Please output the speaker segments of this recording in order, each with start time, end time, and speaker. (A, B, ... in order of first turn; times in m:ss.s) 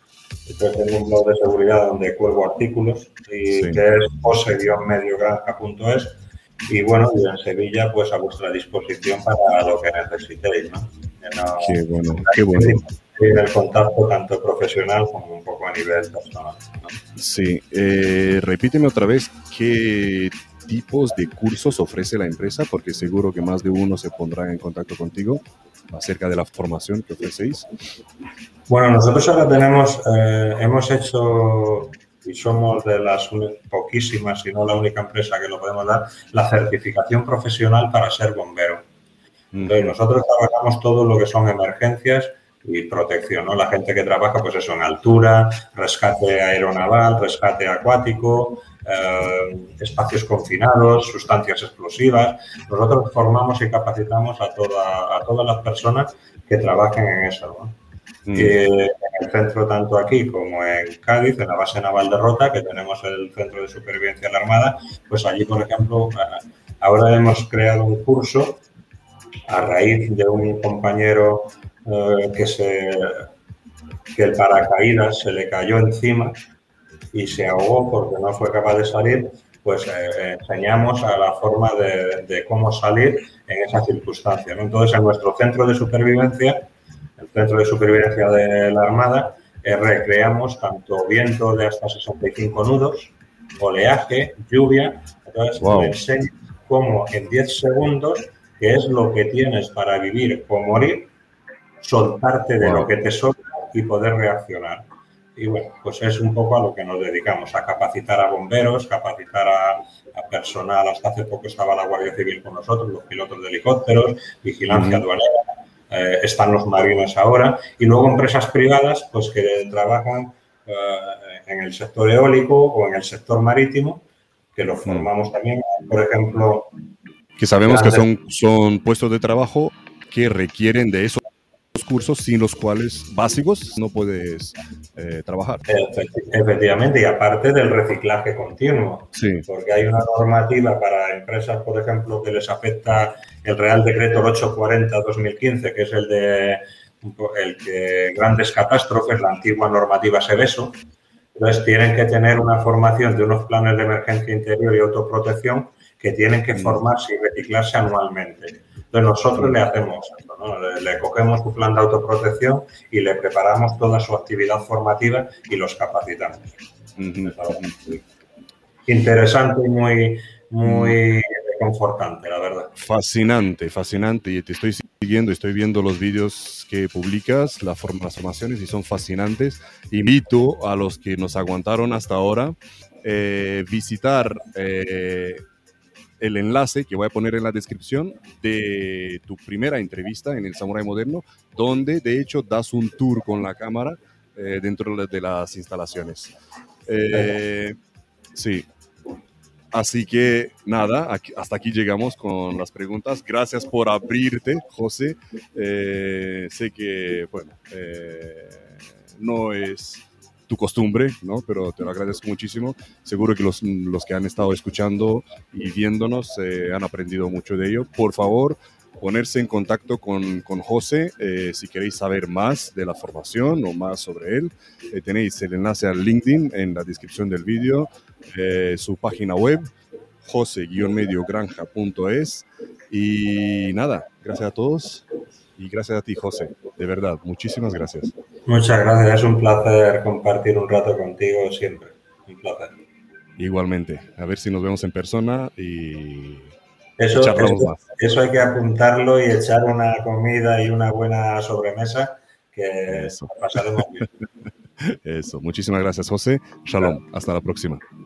0:00.4-0:17.0 A
0:03.5-0:03.8 B
0:11.6-0:12.8 B
0:17.2-0:27.7 B
0:28.7-0:38.8 A
0:39.5-0:39.9 B
0:39.6-0:57.8 A
0:58.2-0:58.6 B
0:58.3-1:08.6 A
1:09.5-1:13.3 A
1:14.1-1:16.4 A
1:17.1-1:41.1 A
1:35.6-1:36.0 B
1:41.8-2:04.0 A
1:42.6-1:42.9 B
1:54.7-1:55.0 B
2:04.5-2:06.7 A
2:07.4-2:15.7 B
2:07.6-2:08.1 A
2:15.7-2:30.8 A
2:19.1-2:19.5 B
2:31.3-2:46.6 A
2:36.5-2:36.8 B
2:47.0-2:47.8 B
2:47.2-2:48.0 A
2:48.8-2:52.7 A
2:50.6-2:51.0 B
2:52.7-3:05.4 B
3:06.2-3:16.3 B
3:16.9-3:17.8 B
3:18.3-3:18.6 B
3:19.7-3:49.7 B
3:50.2-3:58.1 B
3:58.4-4:02.8 A
4:03.4-4:06.5 B
4:07.0-4:14.1 A
4:07.2-4:07.8 B
4:12.9-4:13.3 B
4:14.8-4:17.8 B